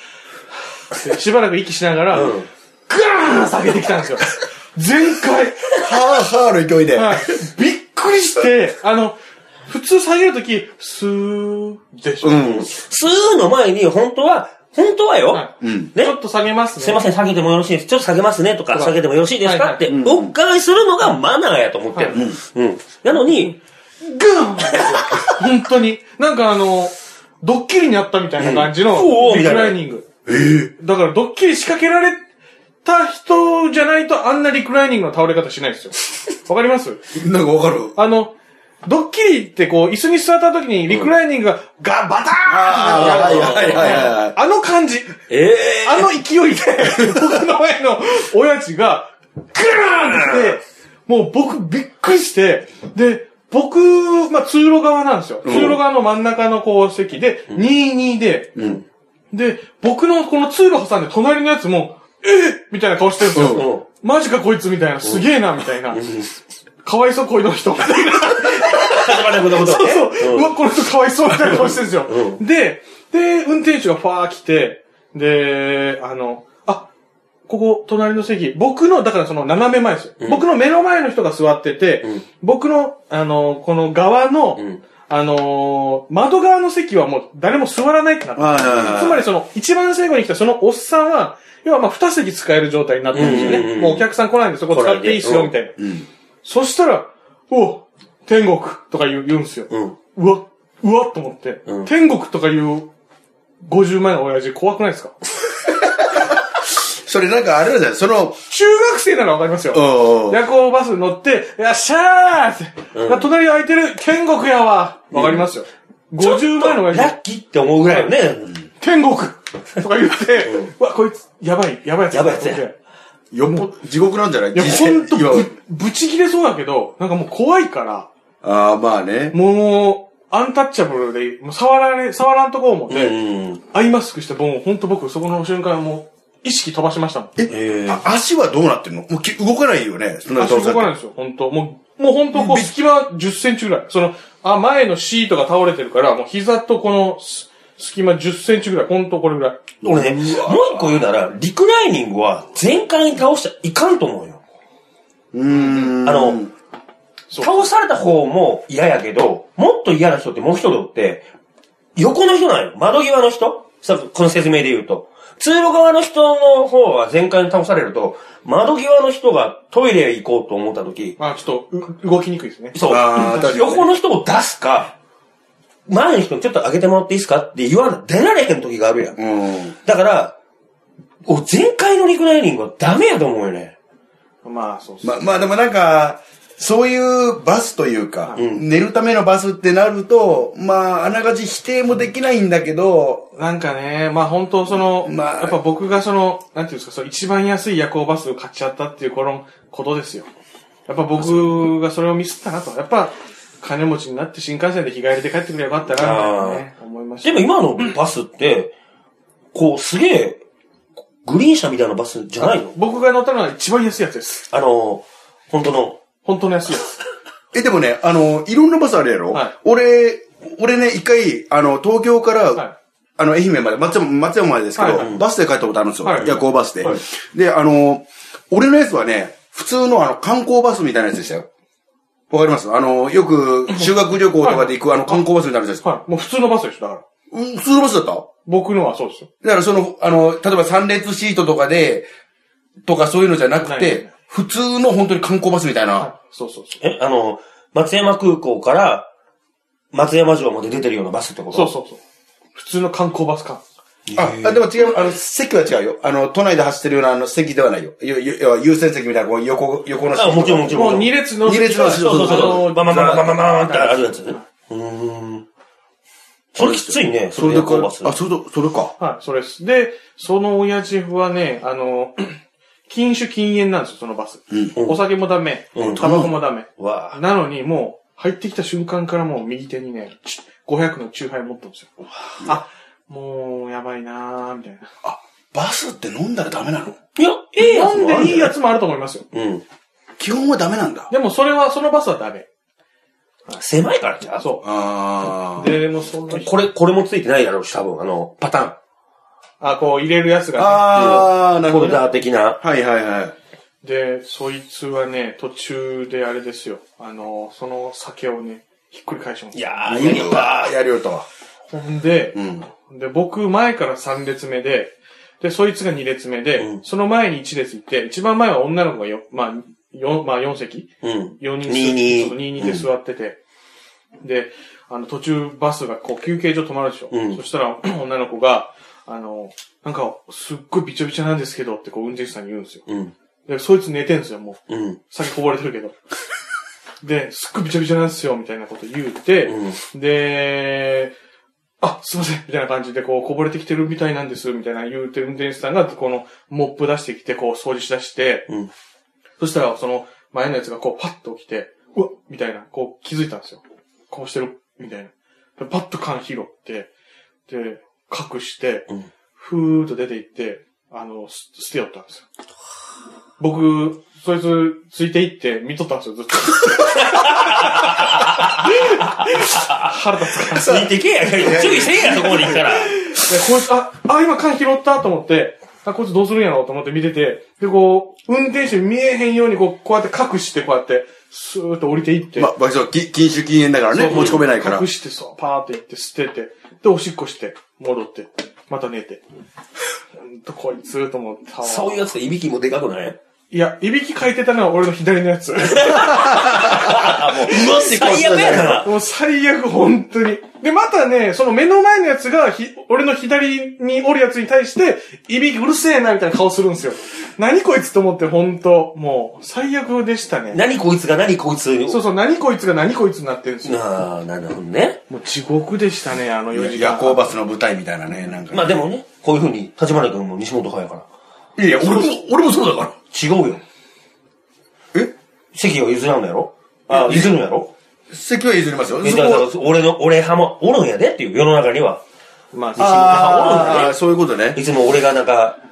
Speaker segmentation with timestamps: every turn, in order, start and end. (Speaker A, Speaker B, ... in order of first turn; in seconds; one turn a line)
Speaker A: 0.5-5.7
Speaker B: 2.1-2.5
Speaker C: 5.8-7.5
Speaker A: 6.9-12.5
Speaker C: 12.2-12.7
Speaker B: 12.4-16.2
Speaker A: 15.3-17.1
Speaker C: 15.6-15.9
Speaker B: 16.8-23.6
Speaker A: 18.7-19.9
Speaker C: 19.9-20.3
Speaker A: 21.9-22.3
Speaker C: 22.1-22.4
Speaker A: 23.1-30.1
Speaker B: 24.7-25.3
Speaker B: 28.4-29.8
Speaker C: 30.3-30.7
Speaker A: 30.7-32.2
Speaker A: 32.8-37.0
Speaker C: 37.1-38.0
Speaker A: 38.0-38.3
Speaker A: 38.9-45.2
Speaker B: 40.9-41.1
Speaker C: 42.5-44.4
Speaker B: 42.9-44.2
Speaker B: 45.3-46.1
Speaker A: 45.7-58.6
Speaker C: 46.9-47.2
Speaker B: 49.8-50.6
Speaker C: 55.4-55.8
Speaker B: 55.5-55.8
Speaker C: 58.6-58.8
Speaker B: 58.6-58.8
Speaker A: 59.3-66.1
Speaker C: 63.3-63.7
Speaker B: 63.4-63.9
Speaker B: 65.0-65.3
Speaker B: 65.9-66.3
Speaker A: 66.8-76.9
Speaker B: 68.3-70.6
Speaker B: 71.3-72.4
Speaker A: 77.5-95.8
Speaker C: 88.4-89.3
Speaker B: 88.7-89.1
Speaker B: 93.1-94.1
Speaker C: 93.1-93.7
Speaker B: 94.7-95.5
Speaker C: 95.8-96.1
Speaker A: 96.4-102.9
Speaker B: 99.7-100.0
Speaker A: 103.6-105.2
Speaker C: 106.9-108.4
Speaker A: 108.5-117.2
Speaker C: 109.7-110.4
Speaker B: 112.9-113.3
Speaker B: 115.1-115.5
Speaker B: 116.2-118.5
Speaker A: 117.8-118.2
Speaker A: 118.7-122.7
Speaker B: 120.5-120.7
Speaker B: 122.1-122.7
Speaker C: 123.3-125.5
Speaker A: 124.5-128.1
Speaker C: 128.4-129.4
Speaker A: 129.3-137.3
Speaker B: 132.9-133.6
Speaker C: 137.4-140.9
Speaker B: 137.5-138.1
Speaker A: 140.3-149.8
Speaker C: 142.3-142.7
Speaker C: 149.8-150.8
Speaker B: 149.8-154.4
Speaker C: 155.3-156.5
Speaker A: 155.5-156.0
Speaker B: 156.0-156.4
Speaker A: 157.3-157.7
Speaker B: 157.4-161.2
Speaker B: 162.0-171.2
Speaker A: 171.2-172.8
Speaker B: 172.7-174.9
Speaker C: 172.9-173.9
Speaker B: 175.9-179.2
Speaker C: 179.2-179.8
Speaker B: 179.7-180.3
Speaker B: 181.3-183.7
Speaker A: 184.4-185.3
Speaker C: 185.0-193.3
Speaker B: 188.4-188.7
Speaker A: 193.3-200.3
Speaker C: 194.7-195.6
Speaker A: 200.9-207.9
Speaker B: 201.2-201.7
Speaker B: 205.8-206.7
Speaker B: 207.2-208.7
Speaker B: 209.5-210.4
Speaker B: 211.2-212.8
Speaker A: 212.4-214.4
Speaker B: 214.5-216.0
Speaker A: 216.2-216.9
Speaker C: 217.5-222.6
Speaker C: 223.2-231.5
Speaker A: 224.8-225.2
Speaker B: 224.9-225.2
Speaker A: 226.0-226.4
Speaker C: 232.3-235.8
Speaker A: 233.7-235.2
Speaker A: 235.8-237.0
Speaker C: 237.3-238.3
Speaker A: 238.4-239.3
Speaker C: 239.4-242.1
Speaker C: 242.9-246.1
Speaker A: 243.6-244.1
Speaker A: 245.9-246.8
Speaker B: 246.8-249.1
Speaker B: 249.9-251.8
Speaker A: 251.5-252.0
Speaker A: 252.6-253.6
Speaker B: 254.1-254.7
Speaker C: 254.2-262.8
Speaker B: 260.1-261.2
Speaker A: 260.7-264.4
Speaker B: 261.8-265.4
Speaker B: 266.5-268.1
Speaker C: 266.6-268.9
Speaker A: 269.0-284.9
Speaker B: 274.8-275.0
Speaker B: 275.7-277.2
Speaker C: 275.8-276.3
Speaker C: 285.0-287.0
Speaker B: 287.2-288.6
Speaker A: 287.6-289.2
Speaker B: 289.3-289.6
Speaker C: 290.2-291.1
Speaker A: 291.1-292.5
Speaker B: 293.6-294.4
Speaker A: 294.3-294.7
Speaker C: 294.6-295.7
Speaker A: 295.2-296.5
Speaker B: 296.3-298.8
Speaker A: 299.6-301.3
Speaker C: 300.6-302.1
Speaker B: 300.9-302.6
Speaker C: 302.6-303.4
Speaker A: 303.8-310.1
Speaker B: 309.5-310.8
Speaker C: 309.9-311.3
Speaker A: 311.7-323.4
Speaker C: 312.4-312.6
Speaker B: 316.6-316.8
Speaker B: 321.0-322.9
Speaker A: 324.2-332.8
Speaker B: 327.1-327.4
Speaker B: 332.9-333.1
Speaker A: 333.5-336.0
Speaker B: 334.7-335.0
Speaker A: 337.0-341.1
Speaker B: 339.4-339.8
Speaker A: 341.8-348.5
Speaker A: 349.4-356.9
Speaker A: 357.5-362.2
Speaker A: 363.4-370.9
Speaker B: 366.9-372.9
Speaker C: 370.6-373.2
Speaker A: 372.8-382.5
Speaker C: 382.4-384.9
Speaker A: 383.9-389.2
Speaker B: 384.1-384.5
Speaker A: 390.2-392.1
Speaker B: 391.6-393.2
Speaker A: 393.5-396.3
Speaker B: 395.6-398.9
Speaker C: 395.9-398.9
Speaker A: 398.8-410.6
Speaker B: 410.5-412.0
Speaker A: 411.9-413.8
Speaker B: 413.6-415.0
Speaker A: 415.1-417.4
Speaker C: 416.5-418.8
Speaker B: 418.5-421.1
Speaker C: 421.6-423.0
Speaker B: 421.7-422.1
Speaker B: 423.1-423.6
Speaker B: 425.5-427.7
Speaker C: 426.9-427.4
Speaker A: 426.9-427.3
Speaker C: 428.1-429.5
Speaker B: 429.0-432.0
Speaker A: 432.5-433.9
Speaker B: 432.7-433.9
Speaker C: 432.8-434.6
Speaker B: 434.5-435.6